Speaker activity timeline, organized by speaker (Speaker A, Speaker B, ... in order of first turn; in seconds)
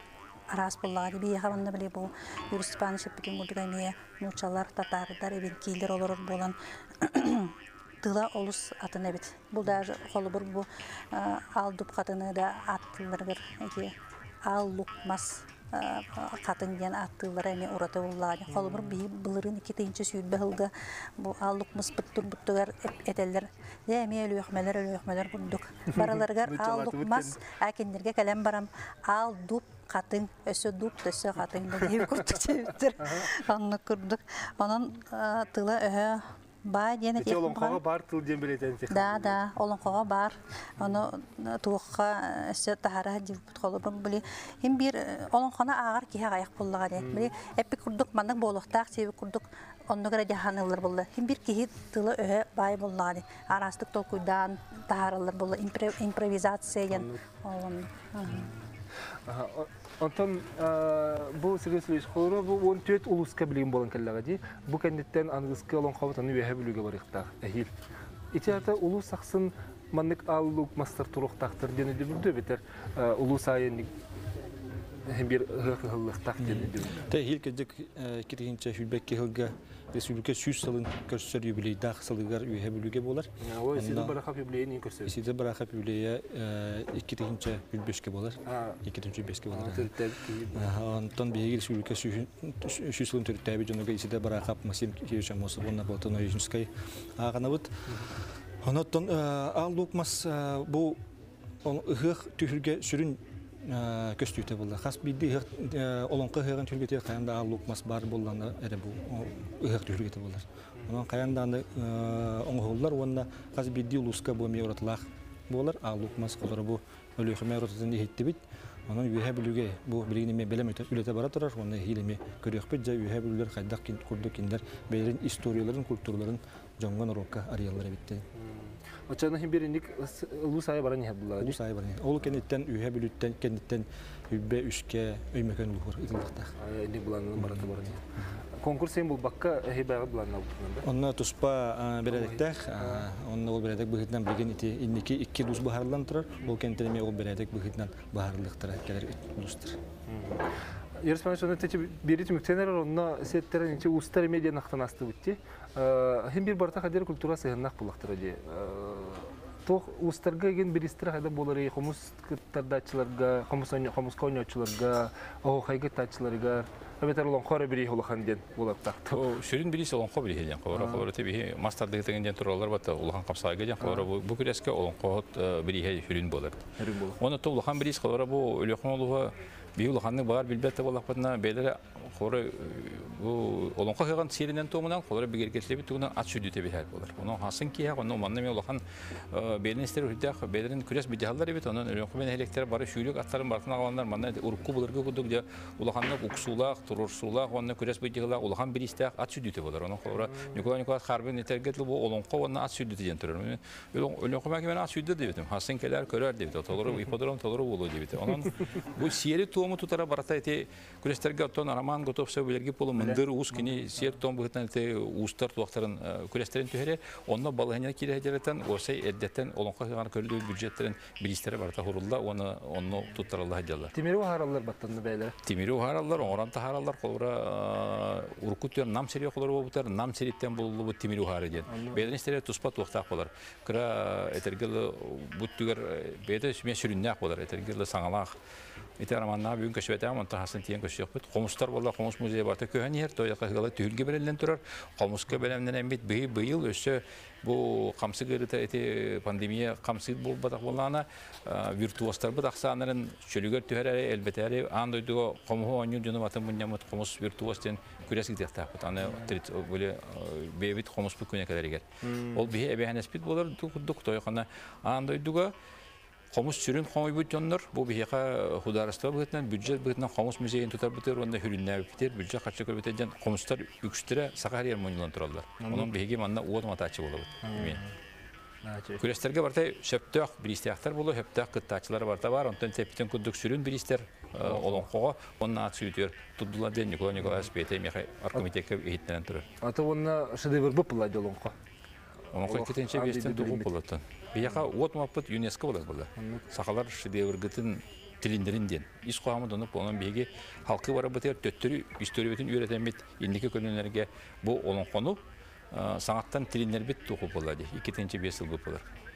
Speaker A: 0.5-37.8, 38.9-58.5
Speaker B: 18.5-19.0, 25.9-27.4, 31.8-32.3, 33.0-33.4, 37.2-39.4, 47.0-47.3, 56.9-57.2, 58.3-58.6, 59.2-67.7, 68.3-73.9, 75.0-77.0, 83.4-85.1, 88.5-88.8, 89.5-90.6, 128.3-131.6, 136.6-138.0, 138.6-140.8, 142.1-143.1, 150.1-169.4, 170.7-171.1, 173.8-174.1, 176.8-177.2, 200.1-200.6, 213.0-214.1, 223.9-225.3, 231.7-232.1, 262.0-262.5, 275.6-275.9, 277.4-277.9, 278.6-279.0, 284.4-284.9, 287.2-287.5, 289.6-291.5, 292.4-293.7, 296.2-296.4
Speaker C: 76.4-84.2, 85.1-89.9, 90.5-98.0, 98.6-101.0, 101.6-128.2, 131.4-136.5, 137.4-137.7, 140.8-149.8
Speaker D: 169.1-176.7, 177.2-223.9, 225.4-238.3, 239.0-265.5, 266.3-277.8, 279.0-289.4, 292.3-308.8